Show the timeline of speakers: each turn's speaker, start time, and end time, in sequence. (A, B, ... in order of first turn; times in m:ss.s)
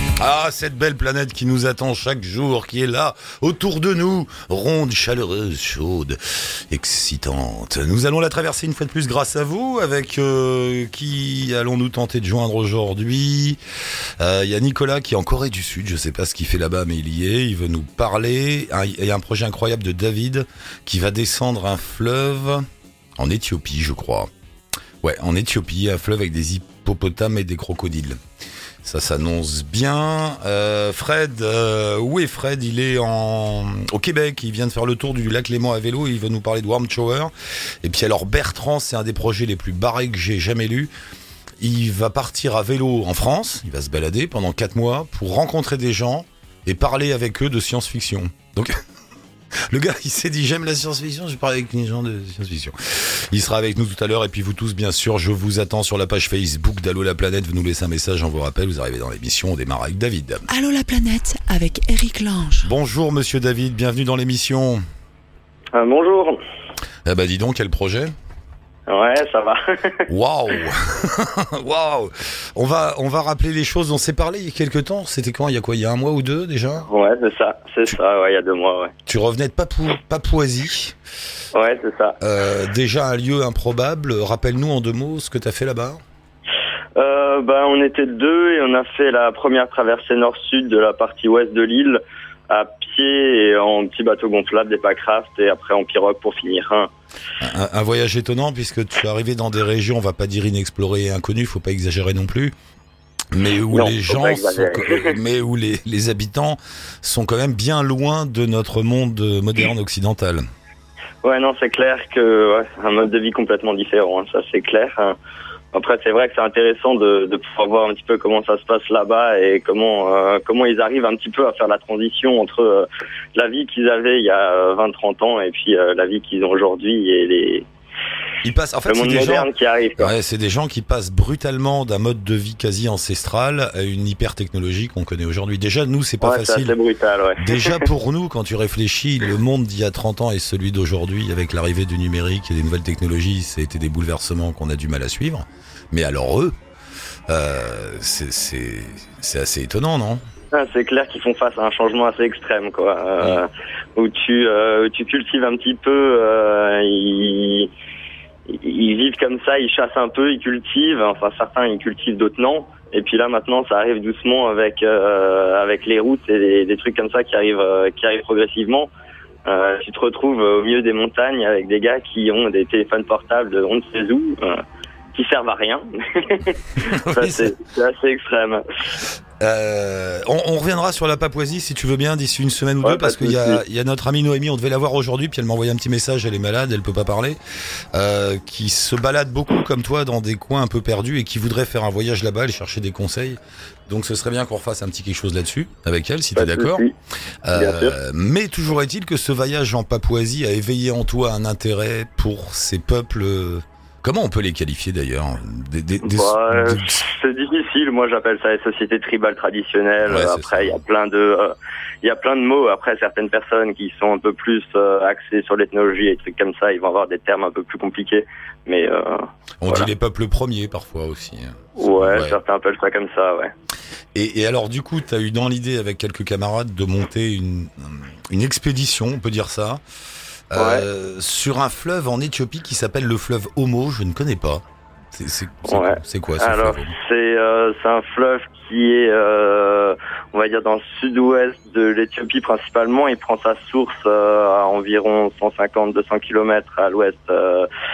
0:00.2-0:13.6 A
0:14.2-0:22.7 A
0:23.2-0:24.3 A
0:25.0-0:28.2 A
0:28.8-0:37.3 A
0:37.8-0:40.9 A
0:41.6-0:48.8 A
0:49.6-1:00.5 A
1:00.5-1:02.7 B
1:02.6-1:04.8 A
1:05.7-1:06.4 C
1:07.0-1:08.2 A
1:08.9-1:10.1 C
1:10.1-1:16.9 A
1:16.9-1:18.9 C
1:19.1-1:21.0 A
1:21.5-1:22.2 C
1:22.2-1:26.0 A
1:27.0-1:36.9 C
1:37.4-1:42.5 A
1:43.3-1:50.4 A
1:43.7-1:45.2 C
1:51.2-1:55.2 C
1:55.7-2:07.7 C
2:08.4-2:09.5 A
2:08.9-2:10.1 C
2:10.0-2:16.8 A
2:16.2-2:17.9 C
2:17.4-2:26.5 A
2:27.3-2:30.2 A
2:30.5-2:37.7 C
2:38.5-2:48.9 C
2:49.4-2:54.6 C
2:55.1-2:58.6 C
2:56.8-2:57.5 A
2:59.4-3:07.4 A
3:02.8-3:03.6 C
3:07.9-3:16.8 A
3:16.3-3:16.9 C
3:17.4-3:27.0 A
3:17.5-3:17.9 C
3:26.0-3:39.9 C
3:30.1-3:30.8 A
3:39.6-3:42.4 A
3:41.8-3:43.5 C
3:44.1-3:49.8 A
3:50.5-3:57.0 A
3:50.5-3:50.8 C
3:55.7-4:07.7 C